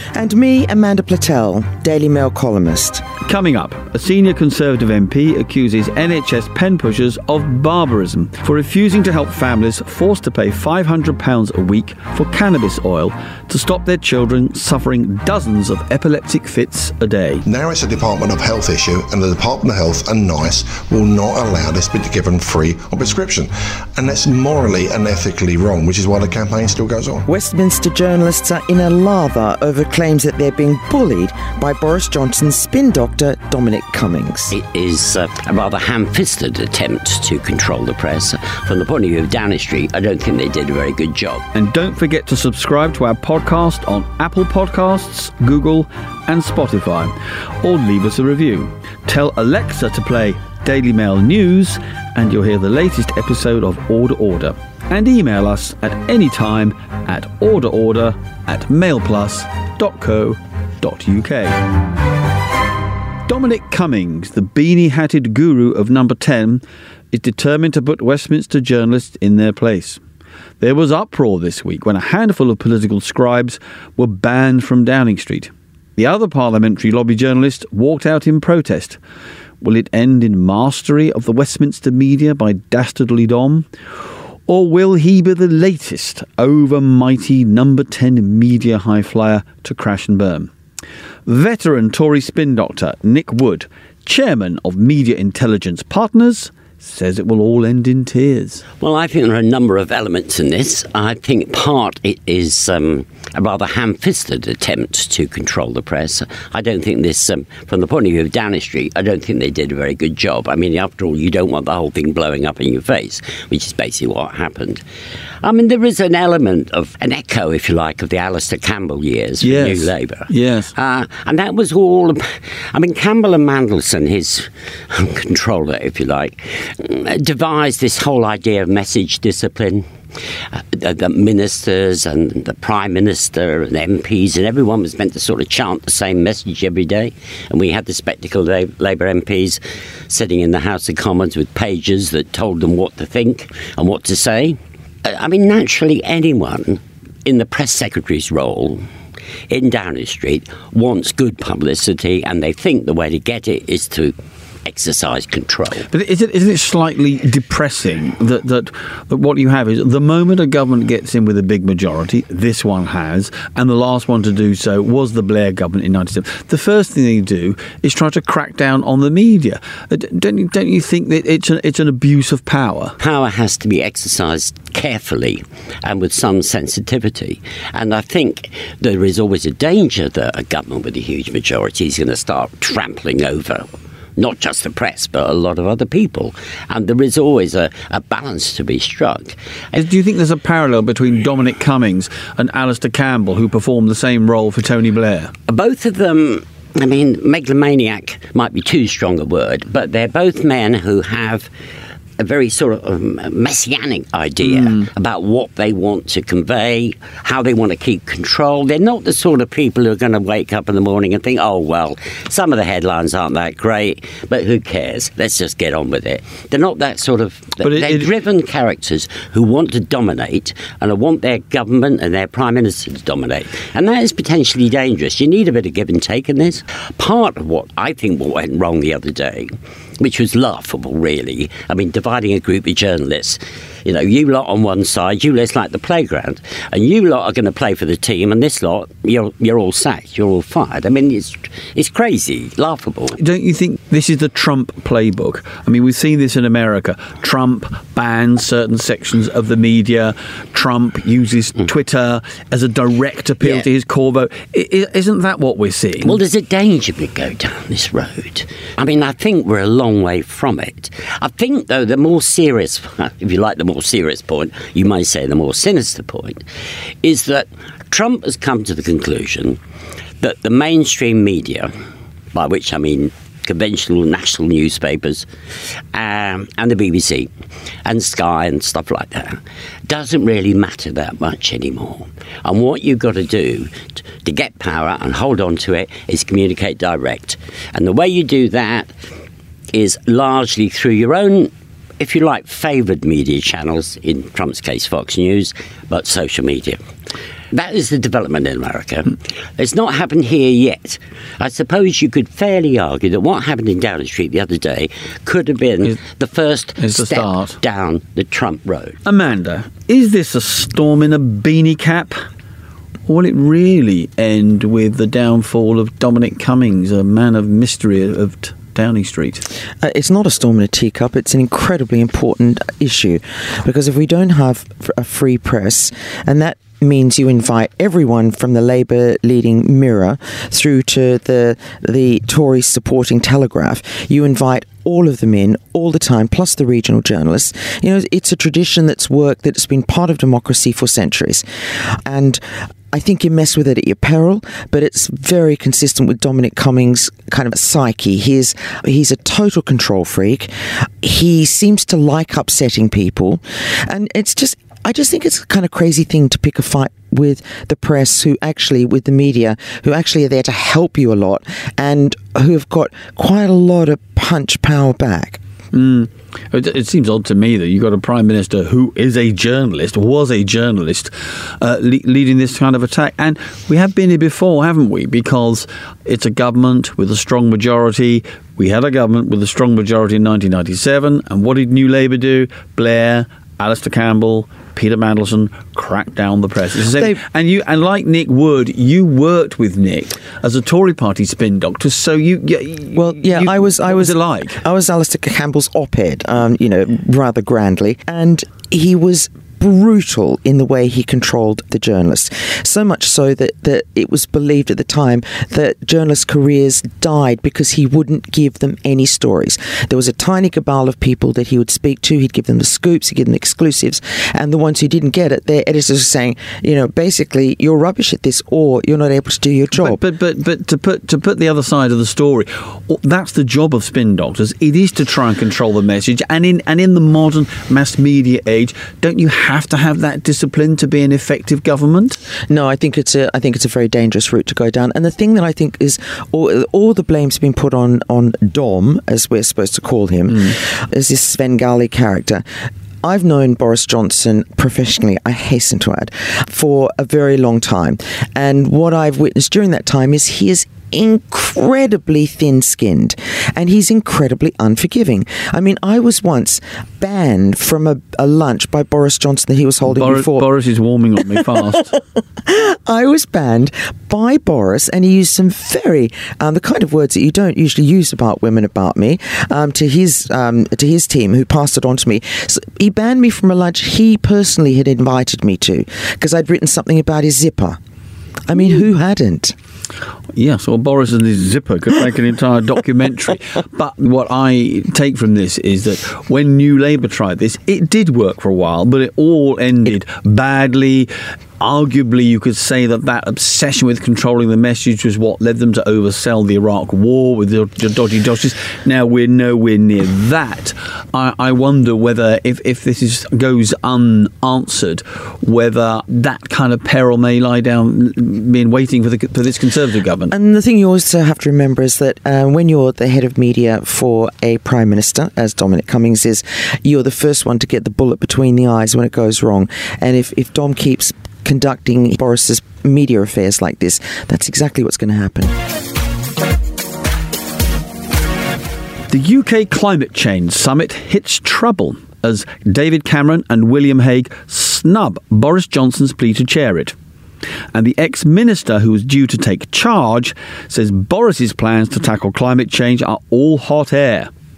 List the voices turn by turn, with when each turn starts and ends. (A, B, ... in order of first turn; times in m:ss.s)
0:00.2-0:03.0 A
0:03.3-0:17.4 B
0:17.5-0:27.3 C
0:27.3-0:34.5 A
0:34.5-0:41.4 D
0:41.5-1:01.6 B
1:03.3-1:10.0 B
1:10.6-1:19.0 B
1:19.6-1:23.7 B
1:24.5-1:30.5 B
1:31.3-1:38.6 B
1:38.8-1:54.8 D
1:55.4-2:09.9 D
1:59.4-2:00.7 B
2:10.5-2:28.8 D
2:29.5-2:35.9 D
2:35.9-2:53.0 B
2:53.0-3:09.4 D
3:09.7-3:15.3 B
3:15.5-3:21.5 D
3:22.2-4:03.2 D
3:24.4-3:24.9 B
3:37.6-3:38.1 B
4:03.2-4:16.2 B
4:16.0-4:26.4 D
4:27.0-4:29.6 D
4:30.2-4:31.7 D
4:32.3-4:35.3 D
4:35.9-4:37.3 D
4:37.8-4:48.9 D
4:49.7-4:56.8 D
4:57.5-5:09.0 D
5:06.8-5:07.6 B
5:09.1-5:12.2 B
5:13.1-5:19.4 B
5:19.8-6:05.4 A
6:05.7-6:34.6 B
6:26.9-6:27.2 A
6:32.9-7:00.0 A
6:59.8-7:12.2 B
7:12.5-7:22.4 A
7:23.0-7:40.5 A
7:39.9-7:41.9 B
7:41.5-7:41.8 A
7:42.4-7:57.8 A
7:58.5-7:59.6 A
8:00.4-8:30.3 B
8:30.3-8:45.6 A
8:49.1-8:57.0 B
8:57.7-9:04.3 B